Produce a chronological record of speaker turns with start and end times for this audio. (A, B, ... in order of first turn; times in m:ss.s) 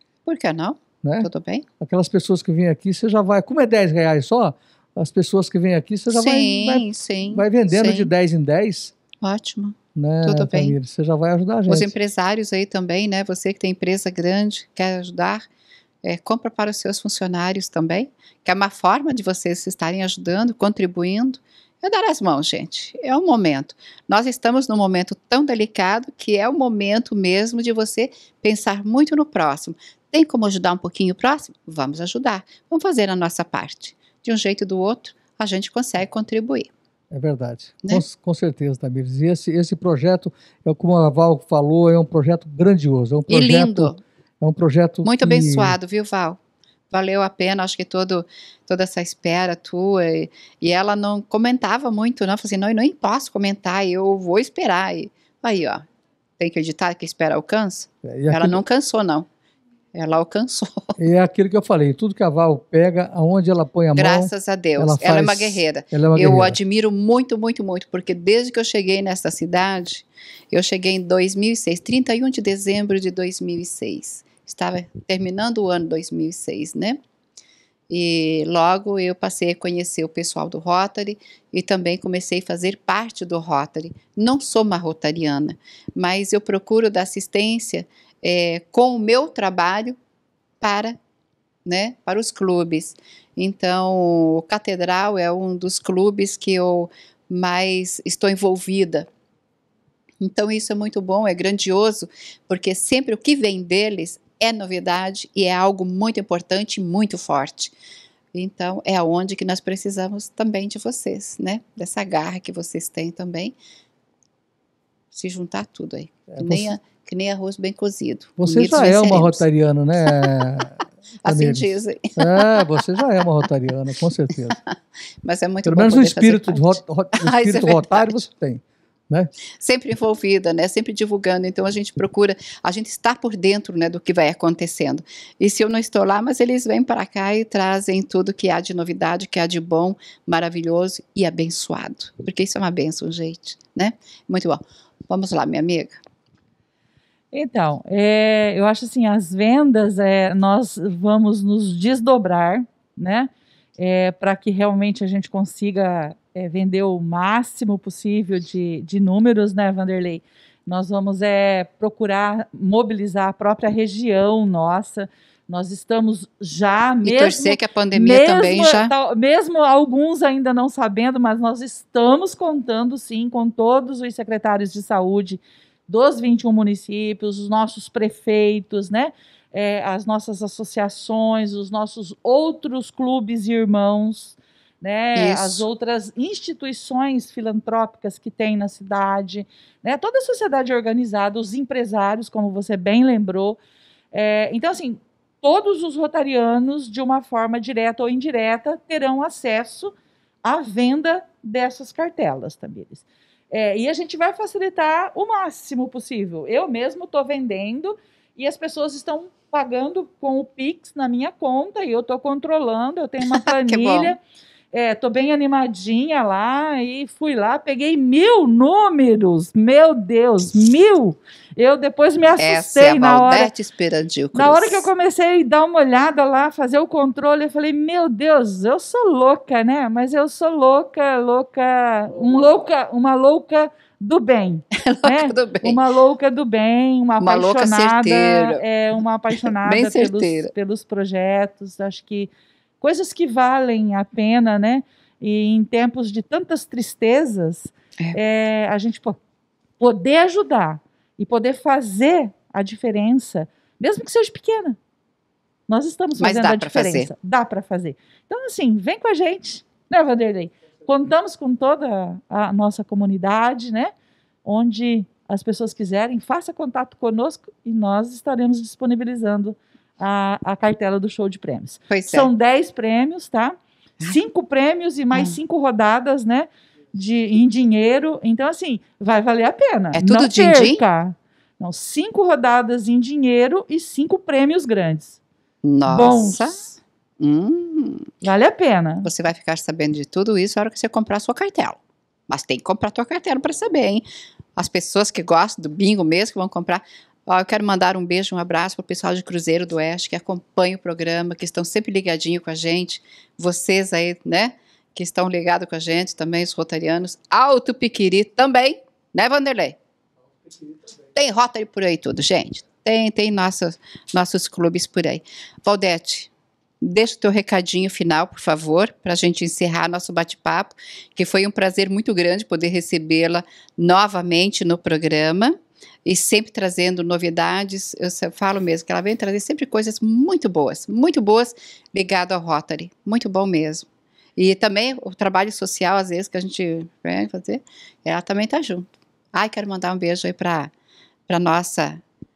0:00.2-0:01.6 A
0:01.0-0:01.3 B
0:01.8-0:08.9 B
0:06.1-0:08.1 A
0:09.2-0:10.8 A
0:09.9-0:11.9 B
0:11.7-0:15.5 A
0:16.0-0:36.7 A
0:37.1-0:45.8 B
0:43.3-0:44.0 A
0:45.0-0:46.4 A
0:46.9-0:55.8 A
0:56.4-0:59.3 A
0:58.0-0:58.6 B
0:59.9-1:01.0 A
1:01.0-1:06.6 B
1:03.9-1:17.0 A
1:17.9-1:30.0 A
1:30.6-1:31.0 A
1:31.6-1:39.1 A
1:40.2-1:47.7 A
1:48.3-1:53.5 A
1:55.1-1:59.4 A
1:56.3-1:56.7 B
1:58.4-2:04.6 B
2:00.0-2:00.4 A
2:01.2-2:02.8 A
2:04.7-2:08.2 A
2:05.6-2:09.3 B
2:09.6-2:26.0 A
2:27.3-3:13.6 C
2:47.0-2:48.9 A
3:05.1-3:05.6 A
3:14.1-3:34.2 C
3:33.3-3:34.2 A
3:34.7-3:43.5 C
3:42.4-3:44.8 A
3:44.3-4:02.3 C
3:54.8-3:55.8 A
3:57.2-3:58.6 A
3:59.3-4:00.5 A
4:02.8-4:09.2 C
4:09.8-4:14.8 C
4:15.7-4:23.9 C
4:16.2-4:17.1 A
4:24.4-4:45.2 C
4:31.9-4:32.3 A
4:39.9-4:40.8 A
4:45.6-4:48.1 A
4:45.9-4:46.6 C
4:48.2-4:49.1 C
4:49.0-4:54.0 A
4:54.6-5:09.8 A
5:11.1-5:40.7 A
5:41.3-5:42.0 A